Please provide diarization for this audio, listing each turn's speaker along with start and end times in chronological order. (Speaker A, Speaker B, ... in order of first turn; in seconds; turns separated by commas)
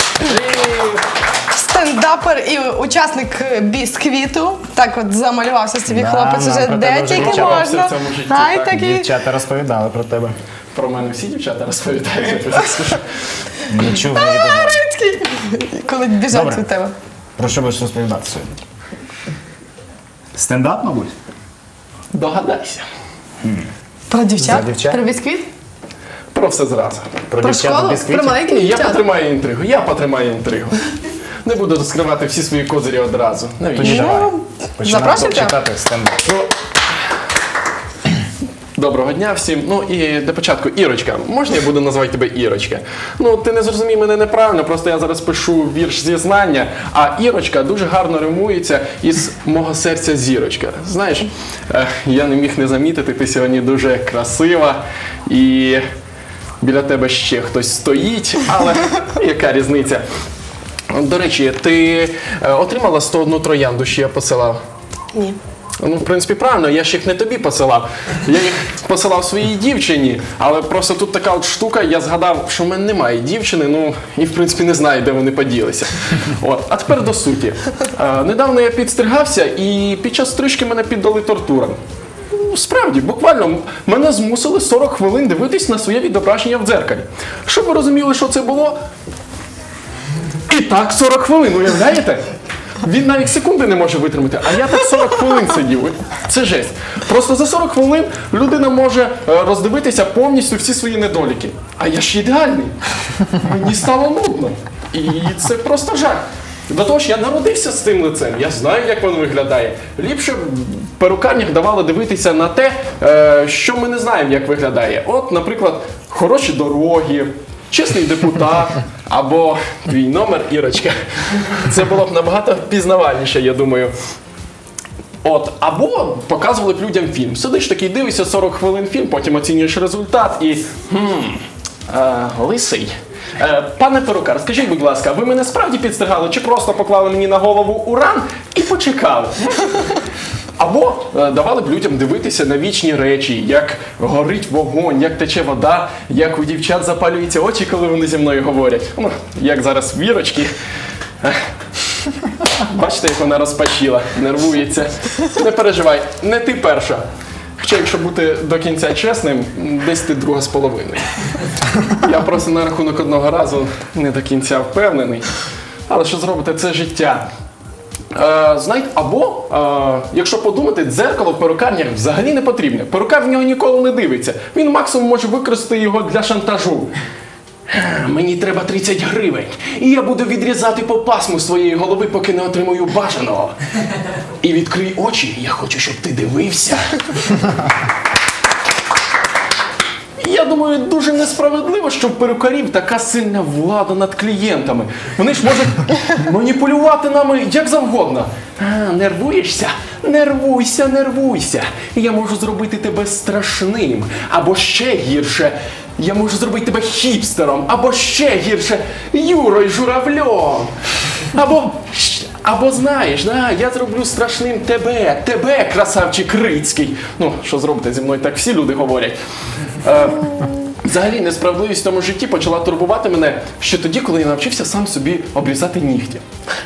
Speaker A: 0.2-1.1, Speaker B: 1.5-9.1, Speaker C: 5.9-7.7, Speaker A: 7.1-8.8, Speaker C: 8.8-10.3, Speaker A: 10.7-13.1, Speaker C: 13.7-14.8, Speaker B: 14.0-16.9, Speaker C: 16.3-16.6, Speaker C: 17.4-18.6, Speaker C: 20.3-21.1, Speaker A: 22.1-22.9, Speaker C: 23.4-23.7, Speaker B: 24.1-25.5, Speaker C: 24.4-25.0, Speaker A: 26.3-27.3, Speaker C: 27.3-28.4, Speaker B: 27.4-29.0, Speaker A: 28.4-30.8, Speaker A: 31.4-34.0, Speaker C: 33.8-36.4, Speaker B: 33.8-35.6, Speaker A: 38.8-55.8, Speaker A: 56.6-60.0, Speaker A: 60.9-64.6, Speaker A: 65.8-81.8, Speaker A: 82.3-88.8, Speaker A: 90.5-92.2, Speaker A: 92.8-123.9, Speaker A: 125.2-140.0, Speaker A: 140.6-150.5, Speaker A: 152.6-157.0, Speaker A: 157.6-161.1, Speaker A: 161.9-165.3, Speaker A: 165.9-167.2, Speaker A: 168.1-176.9, Speaker A: 177.7-183.6, Speaker A: 184.4-187.4, Speaker A: 190.2-210.8, Speaker A: 211.3-219.2, Speaker A: 219.8-226.2